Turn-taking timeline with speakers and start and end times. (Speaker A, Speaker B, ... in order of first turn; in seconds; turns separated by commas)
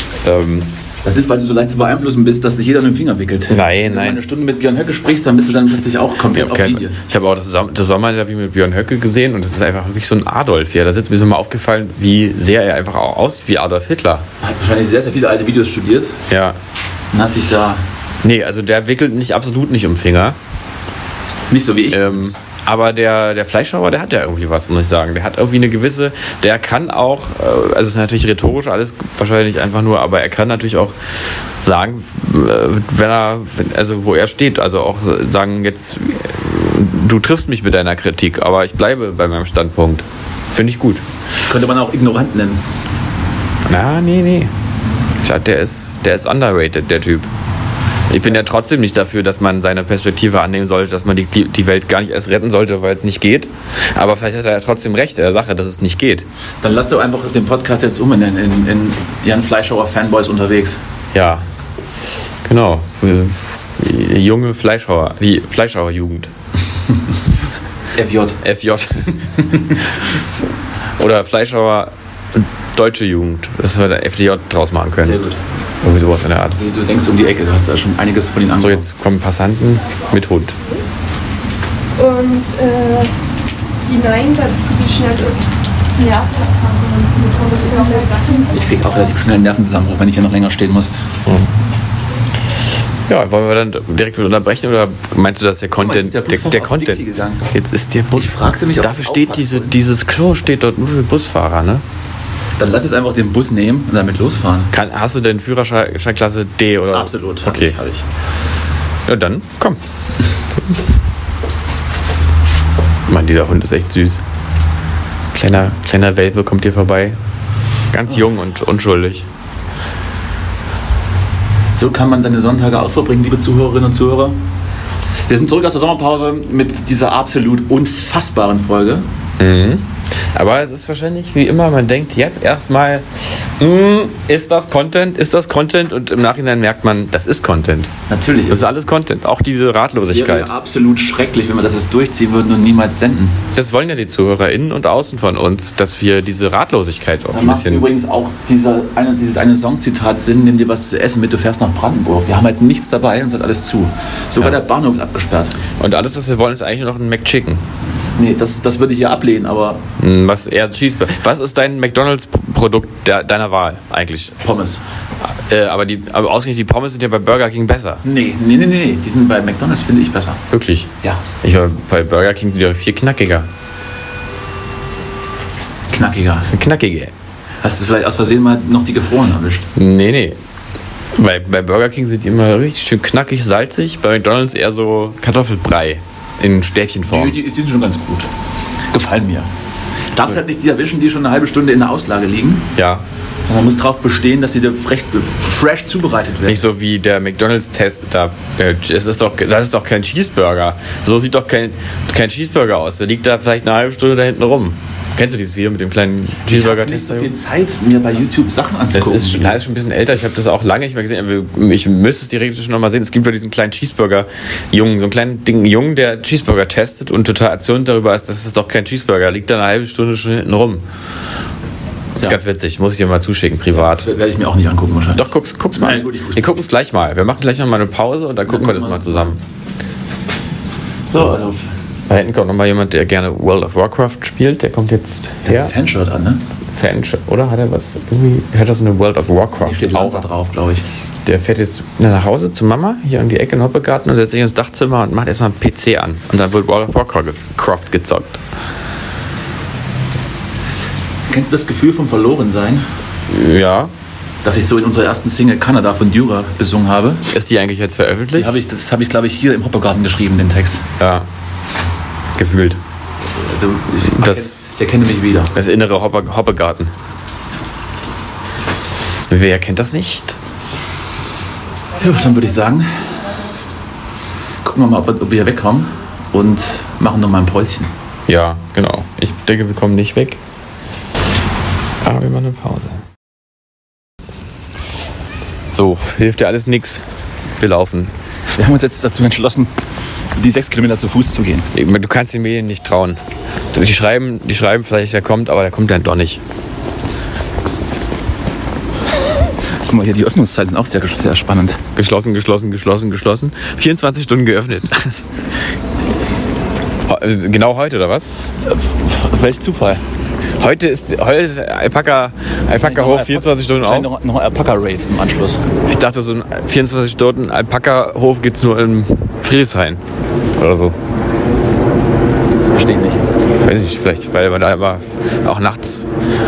Speaker A: 0.2-0.7, Speaker B: 1.0-7.0, Speaker A: 3.5-4.2, Speaker A: 6.3-14.2, Speaker B: 14.4-16.2, Speaker A: 16.3-16.6, Speaker B: 17.1-17.8, Speaker A: 18.2-20.4, Speaker B: 21.5-22.3, Speaker A: 21.9-30.9, Speaker A: 31.6-41.0, Speaker B: 41.4-42.6, Speaker A: 43.7-44.5, Speaker A: 45.2-47.3, Speaker A: 48.1-56.2, Speaker B: 56.6-60.8, Speaker A: 61.1-61.5, Speaker A: 62.4-66.3, Speaker B: 67.9-68.4, Speaker A: 68.4-69.2, Speaker A: 69.8-70.2, Speaker A: 71.0-75.2, Speaker B: 75.0-75.4, Speaker A: 75.8-76.6, Speaker B: 76.5-78.9, Speaker A: 78.6-80.5, Speaker C: 82.0-83.1, Speaker C: 83.8-85.4, Speaker C: 86.0-88.6, Speaker B: 88.5-90.9, Speaker A: 93.1-101.8, Speaker B: 95.8-97.5, Speaker B: 98.1-99.8, Speaker B: 102.6-104.7, Speaker A: 104.7-107.8, Speaker B: 106.9-108.0, Speaker A: 109.0-109.8, Speaker A: 113.1-114.2, Speaker A: 115.3-117.2, Speaker A: 117.9-119.3, Speaker B: 121.7-124.4, Speaker B: 125.3-129.1, Speaker A: 129.4-137.9, Speaker B: 138.1-138.7, Speaker A: 138.5-140.5, Speaker B: 139.9-143.4, Speaker A: 143.5-147.9, Speaker B: 147.3-155.5, Speaker A: 155.8-157.6, Speaker B: 158.2-159.8, Speaker A: 160.0-164.4, Speaker B: 164.4-164.8, Speaker A: 165.2-168.0, Speaker B: 168.0-170.4, Speaker A: 170.5-173.5, Speaker B: 175.9-176.5, Speaker A: 176.5-177.1, Speaker B: 177.6-179.7, Speaker A: 179.7-180.4, Speaker A: 181.1-187.4, Speaker B: 187.0-188.3, Speaker B: 188.9-189.5, Speaker B: 190.1-192.7, Speaker A: 192.7-193.0, Speaker B: 193.4-196.7, Speaker A: 196.4-207.3, Speaker B: 206.5-209.6, Speaker A: 208.9-220.8, Speaker A: 222.2-224.1, Speaker B: 223.7-226.5, Speaker A: 225.2-229.4, Speaker B: 228.4-229.4, Speaker B: 231.1-231.7, Speaker A: 232.1-235.7, Speaker B: 235.4-236.4, Speaker A: 236.7-240.3, Speaker B: 239.5-240.8, Speaker A: 241.2-248.4, Speaker B: 251.3-252.8, Speaker A: 253.3-253.9, Speaker B: 254.4-257.3, Speaker A: 257.3-258.5, Speaker B: 258.3-260.9, Speaker A: 261.0-261.3, Speaker A: 262.4-262.8, Speaker B: 263.3-265.5, Speaker A: 264.1-264.6, Speaker A: 265.5-266.9, Speaker A: 269.3-270.4, Speaker B: 272.0-273.2, Speaker B: 274.6-277.9, Speaker A: 278.3-280.4, Speaker A: 282.0-283.0, Speaker A: 285.7-287.0, Speaker A: 287.6-288.1, Speaker B: 288.5-289.7, Speaker B: 290.3-291.7, Speaker A: 291.7-293.2, Speaker A: 293.7-296.4, Speaker B: 299.4-301.8, Speaker A: 301.9-305.2, Speaker A: 307.1-308.3, Speaker B: 308.6-310.0, Speaker A: 310.6-314.1, Speaker B: 312.8-315.6, Speaker A: 315.8-320.0, Speaker A: 320.6-320.9, Speaker B: 322.7-323.2, Speaker A: 323.5-326.1